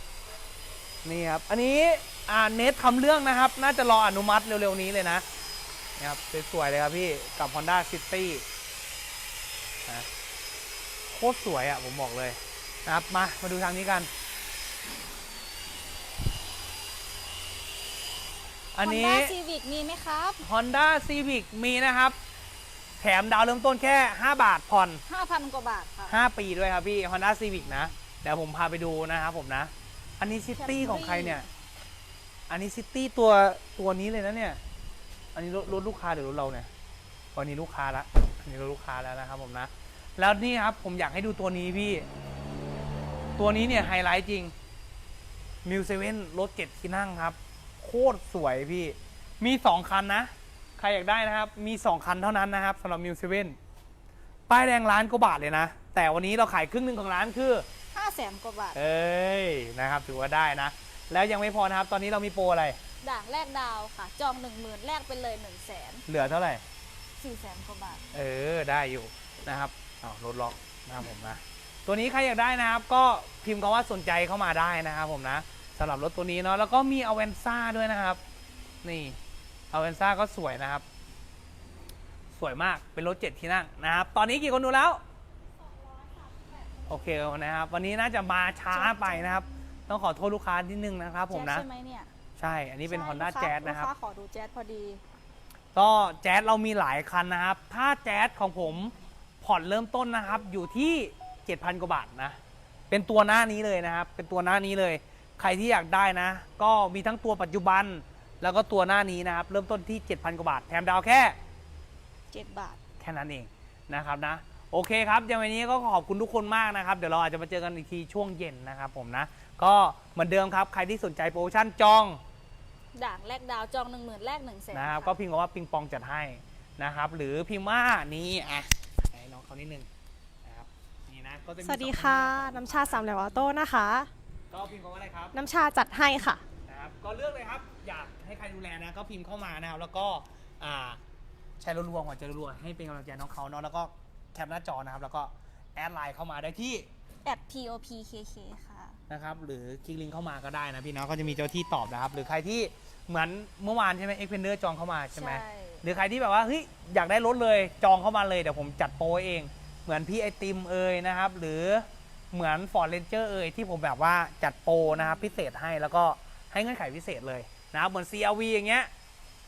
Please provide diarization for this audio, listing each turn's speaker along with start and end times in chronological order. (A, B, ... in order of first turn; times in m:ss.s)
0:01.0-0:05.2 A
0:06.0-0:08.4 A
0:11.1-0:14.1 A
0:18.8-0:19.3 A
0:18.8-0:20.4 B
0:20.4-0:22.2 A
0:23.0-0:25.0 A
0:25.1-0:26.2 B
0:26.1-0:31.4 A
0:30.6-0:31.4 B
0:32.5-0:34.6 A
0:35.4-0:36.7 A
0:37.4-0:42.1 A
0:43.4-0:44.5 A
0:45.6-0:53.6 A
0:54.5-0:57.6 A
0:57.9-0:58.8 B
0:58.7-1:02.8 A
1:03.0-1:06.0 B
1:06.1-1:06.6 A
1:07.2-1:08.0 B
1:08.1-1:18.2 A
1:18.8-1:19.2 A
1:19.7-1:20.8 A
1:22.3-1:25.0 A
1:26.9-1:31.6 A
1:28.7-1:29.3 B
1:31.3-1:32.1 B
1:32.4-1:33.9 A
1:32.9-1:35.0 B
1:35.8-1:42.4 A
1:42.9-1:51.4 A
1:52.3-1:52.8 B
1:53.0-2:02.2 A
2:03.0-2:05.1 B
2:04.7-2:09.9 A
2:10.4-2:13.1 A
2:11.6-2:14.1 C
2:14.5-2:15.4 A
2:15.3-2:16.4 C
2:16.7-2:21.0 A
2:21.6-2:26.9 A
2:27.2-2:29.0 B
2:29.1-2:48.9 A
2:35.1-2:35.8 B